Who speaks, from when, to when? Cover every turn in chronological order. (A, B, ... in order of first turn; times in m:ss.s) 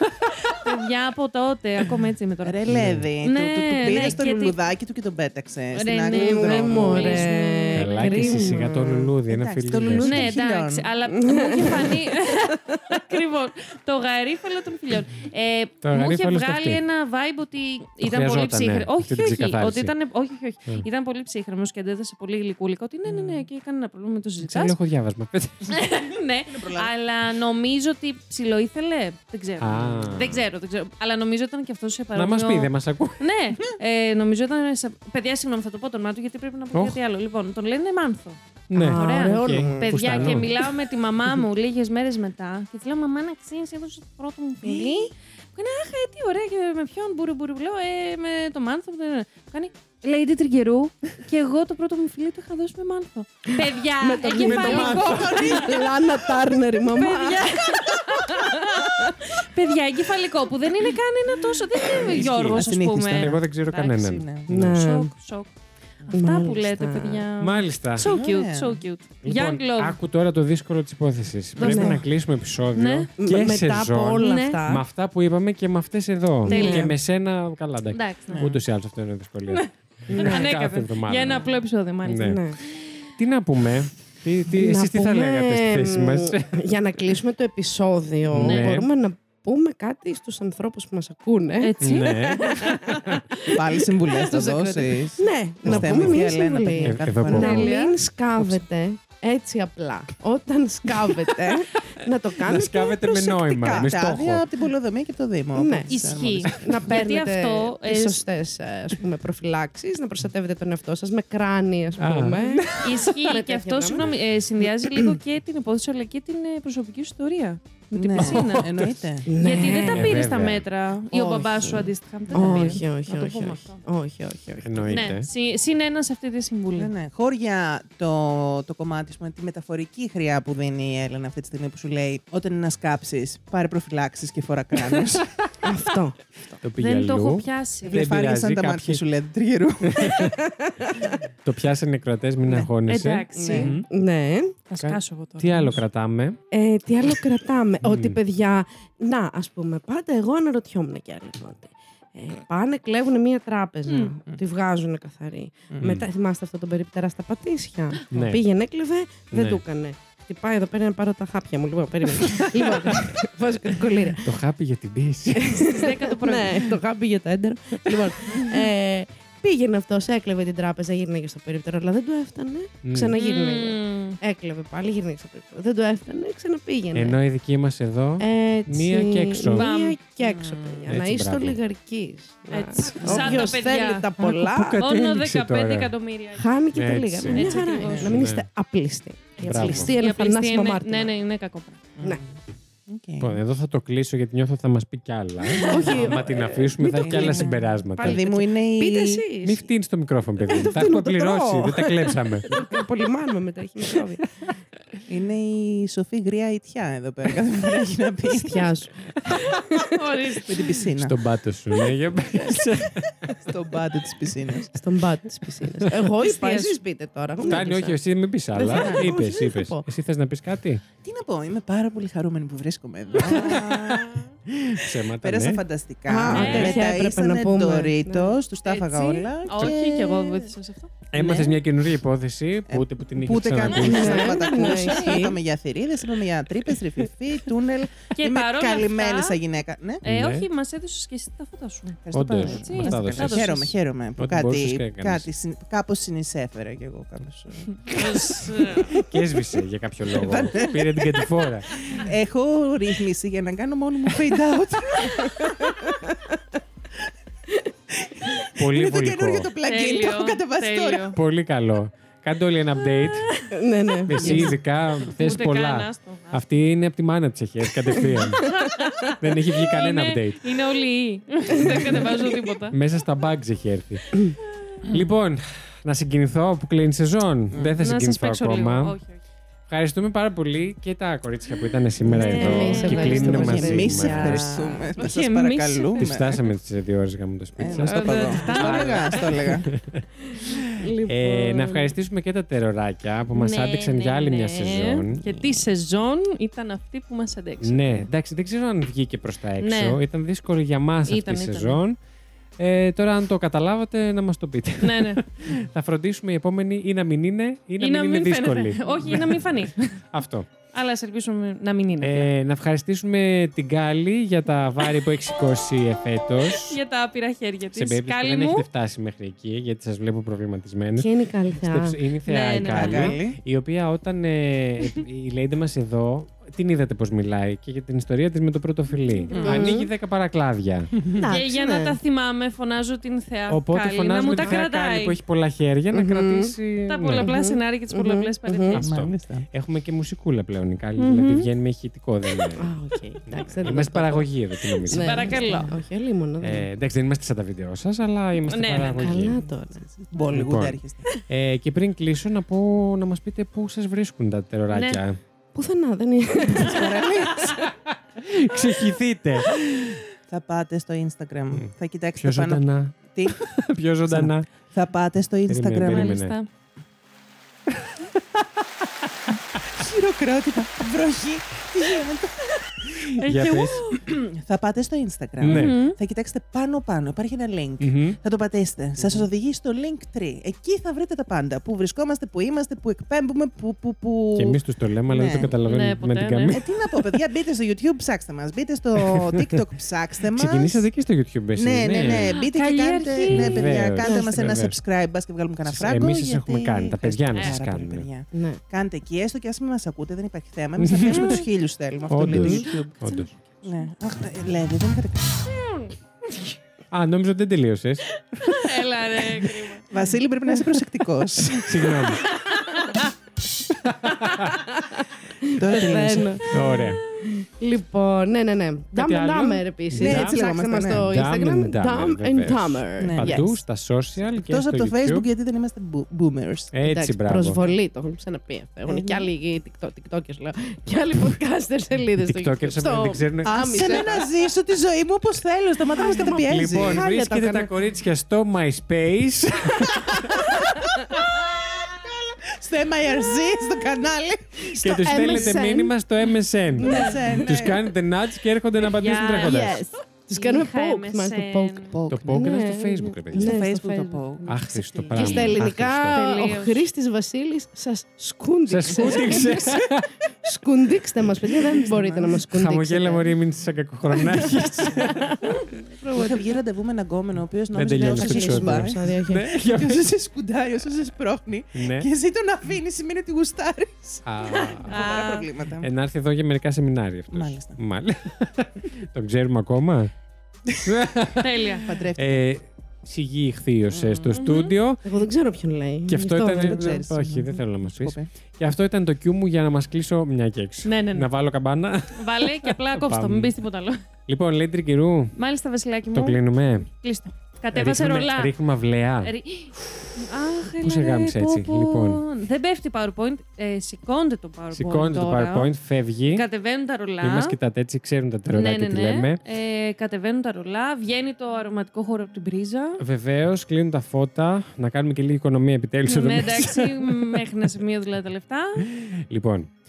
0:00.2-0:02.6 A
0:02.4-0:07.3 B
0:02.7-0:03.1 C
0:03.2-0:04.6 A
0:05.7-0:08.6 A
0:06.1-0:09.1 D
0:07.8-0:10.3 C
0:09.3-0:10.9 B
0:10.0-0:24.7 A
0:11.1-0:13.0 D
0:15.8-0:16.8 C
0:18.0-0:19.9 C
0:23.1-0:23.4 C
0:24.4-0:25.8 C
0:25.7-0:56.0 A
0:26.5-0:26.9 B
0:29.6-0:30.4 C
0:32.2-0:33.2 C
0:36.7-0:37.0 C
0:38.7-0:40.6 C
0:38.7-0:40.4 D
0:39.6-0:39.9 B
0:44.6-0:45.1 B
0:53.6-0:59.0 D
0:54.3-0:55.4 C
0:54.5-0:56.0 B
0:56.8-1:04.0 A
1:02.1-1:04.8 C
1:02.2-1:04.5 B
1:04.5-1:05.1 D
1:04.6-1:05.5 A
1:06.1-1:10.0 A
1:06.1-1:07.3 D
1:07.4-1:08.1 C
1:08.0-1:08.8 B
1:09.2-1:22.5 C
1:11.6-1:12.0 D
1:11.6-1:12.0 A
1:12.8-1:13.1 A
1:13.2-1:14.8 D
1:14.2-1:14.6 A
1:16.4-1:17.0 D
1:16.5-1:16.9 A
1:17.9-1:18.5 A
1:18.3-1:18.6 B
1:20.1-1:20.5 D
1:20.2-1:22.4 A
1:22.2-1:22.6 D
1:23.2-1:26.6 C
1:24.5-1:43.6 D
1:28.3-1:28.9 C
1:28.4-1:28.8 A
1:31.6-1:33.1 A
1:31.8-1:33.0 C
1:33.5-1:37.6 B
1:35.6-1:36.2 C
1:36.8-1:37.8 C
1:37.3-1:38.0 A
1:38.4-1:38.6 C
1:42.4-1:44.5 C
1:43.5-1:46.8 B
1:45.6-1:45.9 D
1:45.9-1:48.2 A
1:46.5-1:54.1 D
1:52.0-1:52.8 C
1:52.8-1:58.7 A
1:57.9-1:59.3 B
1:58.1-1:59.0 C
1:59.3-2:00.2 D
1:59.4-2:03.8 A
1:59.6-2:00.6 C
2:01.1-2:02.8 B
2:02.3-2:05.0 D
2:04.6-2:05.3 C
2:04.9-2:06.9 A
2:06.8-2:15.3 B
2:15.6-2:16.6 D
2:16.6-2:19.0 C
2:16.8-2:18.0 A
2:17.8-2:20.3 B
2:19.9-2:20.4 C
2:20.1-2:21.2 D
2:21.4-2:23.9 C
2:22.9-2:23.8 A
2:23.4-2:24.6 D
2:23.4-2:23.7 B
2:24.7-2:25.8 A
2:24.8-2:26.4 C
2:26.5-2:44.3 D
2:27.8-2:28.2 C
2:33.9-2:34.2 A
2:35.7-2:36.0 B
2:35.8-2:36.1 C
2:38.1-2:38.4 C
2:39.3-2:39.6 C
2:42.3-2:42.9 B
2:44.2-2:45.6 C
2:45.3-2:57.2 D
2:45.6-2:46.8 A
2:52.8-2:53.2 C
2:53.2-2:54.2 A
2:56.9-2:59.7 C
2:58.2-3:04.8 D
2:59.5-3:00.0 A
3:00.2-3:00.8 B
3:00.9-3:01.6 C
3:02.5-3:04.1 A
3:03.1-3:03.3 C
3:03.1-3:03.3 B
3:04.2-3:05.9 C
3:04.8-3:06.4 A
3:06.4-3:11.1 D
3:06.7-3:08.5 C
3:07.3-3:08.2 A
3:07.8-3:08.3 B
3:09.4-3:10.0 C
3:09.4-3:09.9 B
3:10.0-3:11.8 A
3:12.0-3:13.4 B
3:13.2-3:18.2 C
3:15.5-3:19.3 B
3:15.6-3:19.7 D
3:19.4-3:22.6 C
3:20.4-3:24.4 D
3:25.1-3:28.7 B
3:28.3-3:30.4 D
3:29.3-3:29.5 C
3:30.0-3:30.5 A
3:30.4-3:31.2 B
3:30.9-3:33.3 C
3:32.3-3:32.6 D
3:33.4-3:34.8 B
3:34.7-3:38.0 D
3:36.2-3:36.8 A
3:37.4-3:40.8 C
3:38.5-3:39.8 D
3:38.6-3:39.1 B
3:41.0-3:44.3 B
3:43.2-3:43.6 C
3:44.5-3:45.6 C
3:45.2-3:50.5 B
3:46.1-3:48.4 D
3:46.3-3:46.8 A
3:48.7-3:50.9 A
3:51.1-3:54.8 C
3:51.1-3:51.6 B
3:52.7-4:00.0 B
3:53.7-3:55.4 D
3:58.2-3:59.4 A
4:00.0-4:00.5 C
4:00.0-4:03.7 A
4:02.0-4:09.0 B
4:02.1-4:03.6 C
4:04.2-4:05.3 C
4:07.8-4:09.0 A
4:08.9-4:11.8 C
4:10.1-4:15.8 B
4:18.0-4:21.2 B
4:18.6-4:19.5 C
4:19.6-4:21.2 A
4:21.2-4:23.4 C
4:22.9-4:23.5 A
4:23.5-4:24.6 D
4:24.1-4:28.6 C
4:24.2-4:24.5 A
4:25.0-4:26.4 A
4:27.9-4:28.5 D
4:28.4-4:32.8 A
4:29.2-4:30.4 C
4:31.6-4:32.2 D
4:32.7-4:34.0 C
4:34.4-4:34.8 A
4:34.9-4:39.0 C
4:37.5-4:37.8 B
4:37.8-4:39.2 A
4:39.7-4:44.8 C
4:42.0-4:46.4 B
4:42.1-4:44.5 D
4:42.2-4:43.5 A
4:45.0-4:46.2 A
4:46.0-4:50.0 C
4:47.6-4:49.7 B
4:47.6-4:49.2 A
4:50.4-4:52.0 D
4:51.1-4:55.2 C
4:53.3-4:58.1 A
4:57.6-5:02.0 C
4:59.6-5:00.0 A
5:01.1-5:01.8 A
5:02.6-5:10.5 C
5:04.8-5:05.5 A
5:07.8-5:10.0 A
5:10.7-5:12.3 A
5:12.0-5:16.8 C
5:16.6-5:18.7 A
5:17.8-5:30.9 C
5:21.0-5:22.0 D
5:22.3-5:23.2 A
5:22.6-5:23.4 B
5:29.1-5:29.6 A
5:29.3-5:29.7 B
5:29.4-5:29.9 D
5:31.0-5:31.3 B
5:31.1-5:32.0 D
5:31.3-5:35.2 A
5:33.5-5:37.4 C
5:34.2-5:34.6 D
5:35.9-5:36.5 D
5:36.9-5:38.8 A
5:37.1-5:38.8 D
5:38.7-5:42.7 C
5:38.8-5:39.5 B
5:41.0-5:41.5 A
5:42.6-5:46.7 D
5:43.4-5:45.4 C
5:44.9-5:45.8 A
5:46.4-5:49.4 C
5:48.4-5:49.3 A
5:48.8-5:51.1 B
5:49.0-5:49.8 D
5:50.3-5:55.2 C
5:54.7-5:55.0 A
5:55.5-5:57.7 D
5:56.5-5:57.6 B
5:57.6-6:00.0 C
6:00.3-6:06.2 B
6:01.5-6:04.5 C
6:05.5-6:06.4 C
6:05.8-6:06.5 A
6:07.7-6:09.6 C
6:09.8-6:13.2 B
6:13.2-6:14.0 A
6:13.2-6:13.8 C
6:13.9-6:24.6 B
6:15.4-6:15.8 C
6:15.5-6:16.0 A
6:17.8-6:18.2 C
6:24.4-6:26.7 C
6:25.1-6:25.5 B
6:25.6-6:26.6 A
6:26.5-6:30.9 B
6:29.0-6:29.5 C
6:30.3-6:32.4 C
6:31.6-6:42.9 B
6:32.1-6:33.8 A
6:33.3-6:34.8 C
6:34.0-6:34.6 D
6:35.7-6:38.1 C
6:38.3-6:38.6 D
6:40.8-6:41.5 C
6:41.1-6:41.4 A
6:42.1-6:43.3 C
6:42.1-6:42.7 D
6:42.8-6:43.3 A
6:43.6-6:45.5 B
6:45.5-6:46.5 A
6:46.9-6:48.7 C
6:48.3-6:49.9 A
6:49.9-6:52.2 B
6:51.6-6:52.3 C
6:52.2-6:53.0 A
6:53.8-6:54.6 C
6:54.8-7:03.5 D
6:55.4-6:56.4 B
6:56.5-6:57.0 C
6:58.9-7:05.3 C
7:00.0-7:01.2 B
7:03.0-7:03.6 B
7:04.4-7:06.7 B
7:06.7-7:07.7 C
7:06.8-7:14.3 D
7:08.9-7:09.3 B
7:12.2-7:14.1 C
7:13.4-7:17.0 B
7:15.9-7:17.7 D
7:16.4-7:20.6 C
7:19.8-7:25.6 B
7:24.7-7:25.9 D
7:24.8-7:29.8 C
7:26.8-7:27.9 B
7:26.8-7:27.2 A
7:26.8-7:27.1 D
7:28.8-7:29.7 A
7:29.4-7:34.6 D
7:29.5-7:29.7 B
7:30.3-7:32.0 A
7:31.9-7:32.4 B
7:32.1-7:33.5 C
7:33.3-7:35.6 B
7:34.5-7:36.2 C
7:35.1-7:43.3 D
7:36.1-7:36.8 A
7:38.7-7:40.1 C
7:39.0-7:39.5 B
7:41.6-7:42.3 B
7:42.3-7:45.4 C
7:44.1-7:46.6 D
7:46.1-7:55.9 B
7:47.7-7:50.1 C
7:48.0-7:49.5 D
7:51.7-7:52.1 C
7:54.2-7:55.2 C
7:54.8-7:55.5 A
7:55.8-8:00.1 C
7:57.3-7:57.8 B
8:00.8-8:05.0 C
8:01.4-8:01.9 A
8:01.9-8:02.4 B
8:03.9-8:04.4 B
8:04.3-8:04.8 A
8:05.0-8:06.9 D
8:06.1-8:13.5 C
8:06.5-8:08.3 B
8:10.8-8:11.3 A
8:12.2-8:14.0 A
8:14.3-8:15.3 C
8:15.4-8:18.5 A
8:16.1-8:16.9 C
8:17.8-8:20.1 C
8:19.2-8:25.7 A
8:20.8-8:22.2 C
8:24.7-8:26.5 C
8:26.3-8:27.6 A
8:27.2-8:29.4 C
8:28.5-8:33.0 A
8:33.0-8:37.4 C
8:36.1-8:38.8 A
8:38.8-8:39.7 C